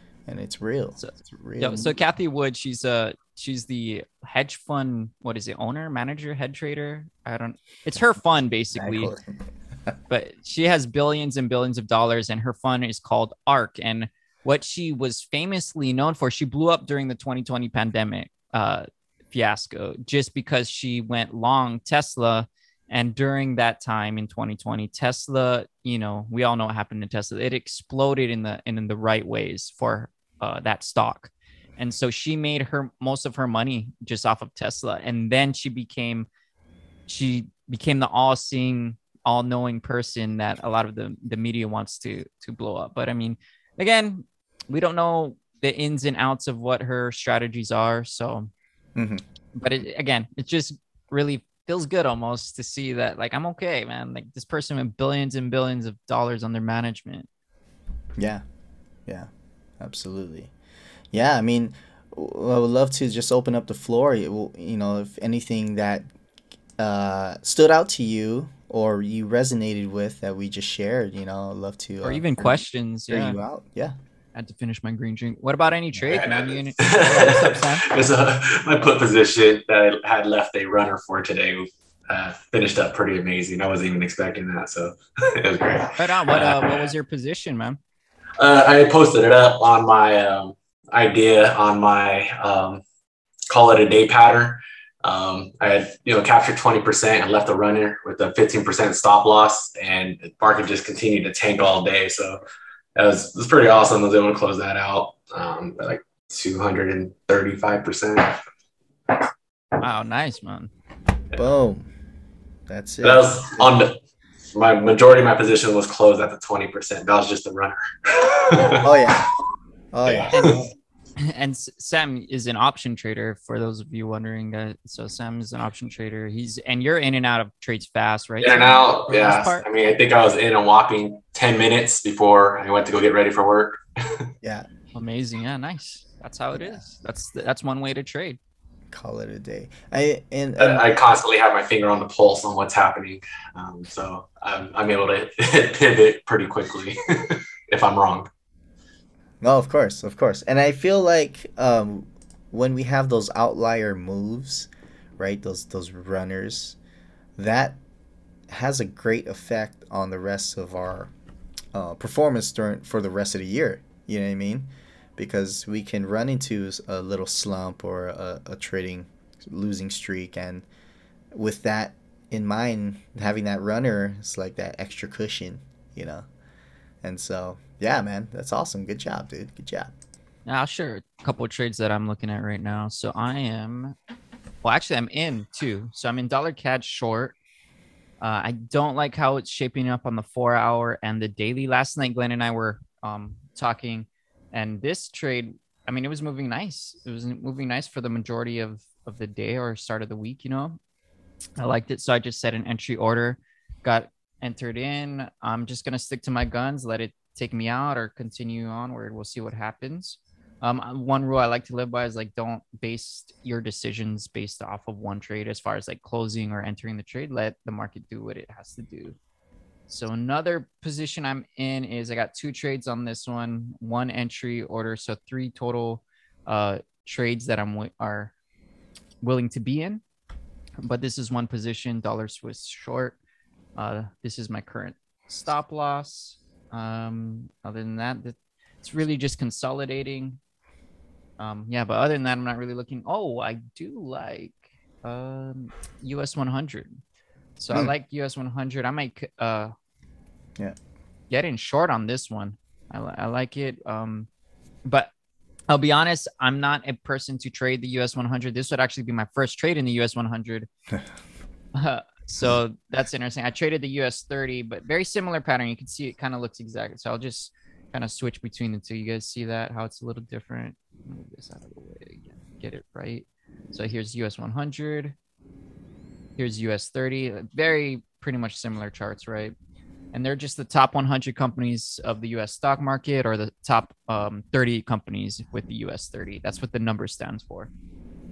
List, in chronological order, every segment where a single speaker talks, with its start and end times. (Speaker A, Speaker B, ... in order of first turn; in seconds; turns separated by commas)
Speaker A: 0.3-2.0, Speaker B: 1.0-9.1, Speaker A: 8.7-9.9, Speaker B: 10.1-36.3, Speaker B: 37.1-48.5, Speaker A: 49.0-49.2, Speaker B: 49.5-57.3, Speaker A: 58.2-58.4, Speaker A: 59.8-60.5, Speaker A: 61.1-66.1, Speaker A: 66.8-73.9, Speaker B: 72.0-73.4, Speaker B: 74.3-77.8, Speaker C: 76.1-86.8, Speaker B: 86.0-87.8, Speaker C: 88.4-92.8, Speaker C: 93.5-102.4, Speaker C: 103.0-108.4, Speaker B: 109.8-110.7, Speaker A: 111.3-111.9, Speaker A: 112.7-113.8, Speaker C: 113.0-113.9, Speaker C: 114.5-118.9, Speaker A: 118.8-119.3, Speaker A: 119.9-120.7, Speaker C: 120.0-120.7, Speaker B: 121.2-129.6, Speaker C: 128.4-134.3, Speaker B: 134.9-138.4, Speaker A: 136.5-136.8, Speaker A: 138.9-140.8, Speaker C: 140.6-148.3, Speaker A: 149.4-156.8, Speaker A: 157.4-157.8, Speaker A: 158.5-161.1, Speaker A: 161.7-170.6, Speaker A: 171.3-176.2, Speaker A: 177.0-179.9, Speaker B: 180.4-183.9, Speaker B: 184.6-187.3, Speaker B: 188.2-200.8, Speaker B: 201.6-219.2, Speaker B: 219.9-228.3, Speaker B: 229.2-230.0, Speaker B: 230.8-233.2, Speaker B: 233.8-240.4, Speaker B: 241.4-247.0, Speaker B: 247.6-249.7, Speaker B: 251.3-254.3, Speaker B: 254.8-255.1, Speaker B: 255.7-260.7, Speaker B: 261.7-275.1, Speaker B: 276.4-279.5, Speaker B: 280.1-287.7